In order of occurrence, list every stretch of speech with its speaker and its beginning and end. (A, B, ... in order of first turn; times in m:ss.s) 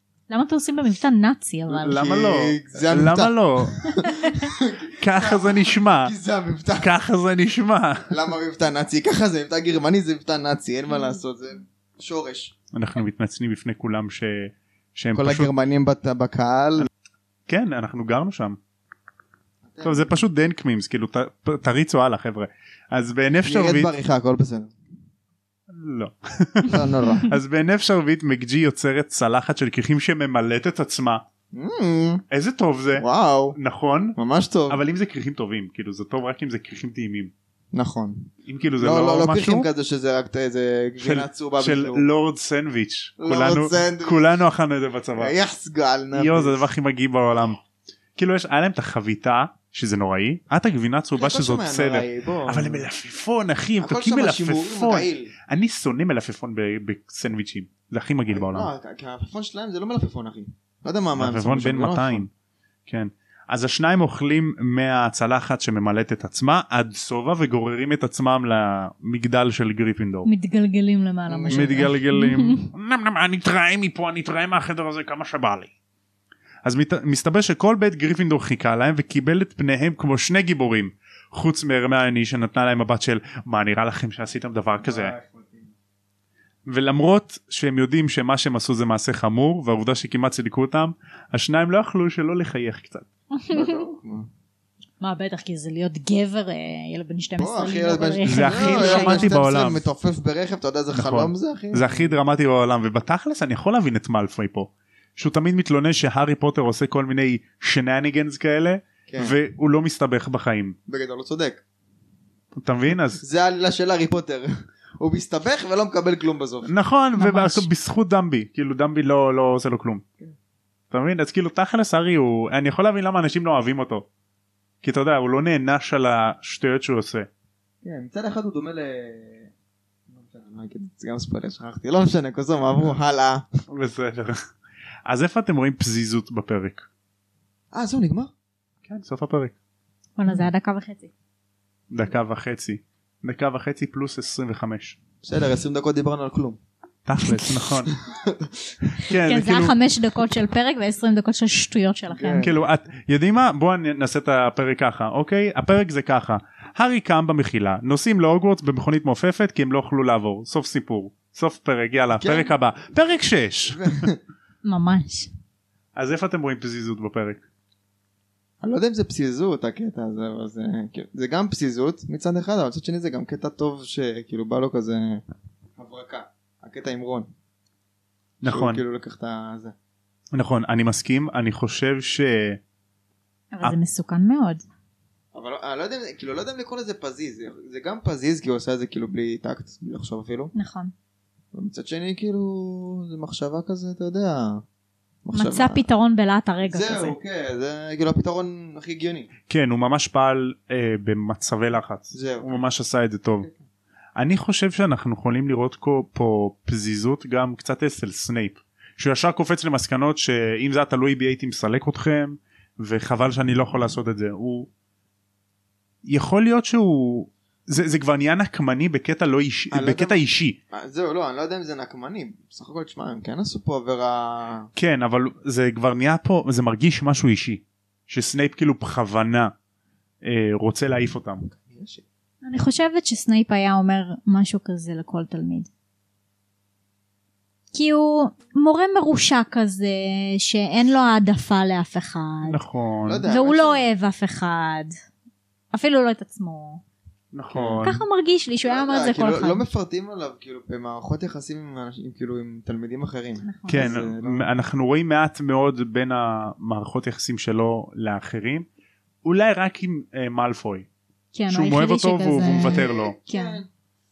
0:00.3-0:02.0 A
0:01.7-0:06.9 B
0:01.8-0:03.8 C
0:04.0-0:04.5 A
0:05.0-0:06.1 C
0:06.8-0:08.1 C
0:08.1-0:12.5 B
0:12.7-0:15.5 C
0:15.1-0:16.9 B
0:17.5-0:18.6 C
0:19.7-0:20.2 B
0:19.8-0:23.9 C
0:23.4-0:24.7 B
0:25.7-0:31.2 C
0:26.7-0:27.3 B
0:31.5-0:32.2 B
0:32.3-0:34.2 C
0:33.0-0:33.6 B
0:34.2-0:34.8 B
0:34.7-0:37.3 C
0:37.7-0:42.0 B
0:38.4-0:39.7 C
0:41.0-0:45.3 C
0:43.2-0:44.4 B
0:45.2-0:46.6 B
0:46.1-0:47.6 C
0:48.2-0:58.7 C
0:51.1-0:52.8 B
0:53.8-0:55.3 B
0:58.3-1:02.2 B
1:01.2-1:02.3 C
1:02.9-1:10.3 C
1:10.2-1:12.6 A
1:11.3-1:11.9 B
1:11.5-1:15.7 C
1:16.6-1:25.2 C
1:24.8-1:25.7 B
1:26.7-1:33.1 C
1:33.3-1:33.8 A
1:33.5-1:34.3 B
1:35.0-1:39.4 A
1:37.4-1:42.1 B
1:38.2-1:39.9 C
1:40.9-1:50.8 C
1:49.1-1:49.4 B
1:50.9-1:51.6 B
1:52.5-1:53.2 C
1:53.2-1:56.7 B
1:56.6-2:00.0 C
1:57.2-1:57.7 A
2:00.9-2:04.0 C
2:04.8-2:07.3 C
2:07.8-2:09.5 B
2:10.1-2:13.5 B
2:13.7-2:14.4 C
2:15.0-2:16.9 C
2:17.7-2:18.3 B
2:18.8-2:19.6 C
2:20.2-2:21.1 A
2:21.9-2:25.0 C
2:25.2-2:26.6 B
2:27.0-2:27.9 C
2:27.9-2:28.8 B
2:29.0-2:29.7 C
2:29.1-2:32.5 A
2:32.1-2:32.5 B
2:32.4-2:43.9 C
2:42.2-2:42.5 B
2:43.7-2:44.2 B
2:44.6-2:45.3 A
2:46.0-2:47.4 C
2:48.6-2:55.2 B
2:55.8-2:57.3 B
2:58.4-2:58.8 C
2:58.4-2:59.7 B
3:00.3-3:02.6 C
3:03.5-3:04.6 A
3:05.3-3:10.5 B
3:10.5-3:10.9 A
3:11.5-3:14.6 B
3:15.2-3:15.8 B
3:15.3-3:17.2 A
3:16.6-3:19.3 B
3:19.5-3:23.5 C
3:22.1-3:22.5 B
3:24.2-3:34.7 C
3:36.0-3:40.6 C
3:39.7-3:44.7 B
3:44.7-3:49.5 C
3:50.2-3:51.4 C
3:51.5-3:52.0 B
3:52.4-3:55.7 A
3:57.7-4:02.6 A
4:02.4-4:03.2 C
4:03.1-4:03.9 B
4:03.3-4:04.9 A
4:05.7-4:06.8 A
4:07.3-4:08.0 C
4:07.5-4:07.9 B
4:07.8-4:09.6 A
4:08.6-4:14.4 B
4:13.4-4:13.9 A
4:13.7-4:18.7 C
4:19.2-4:20.9 C
4:21.3-4:23.6 A
4:21.5-4:23.2 C
4:22.4-4:23.7 B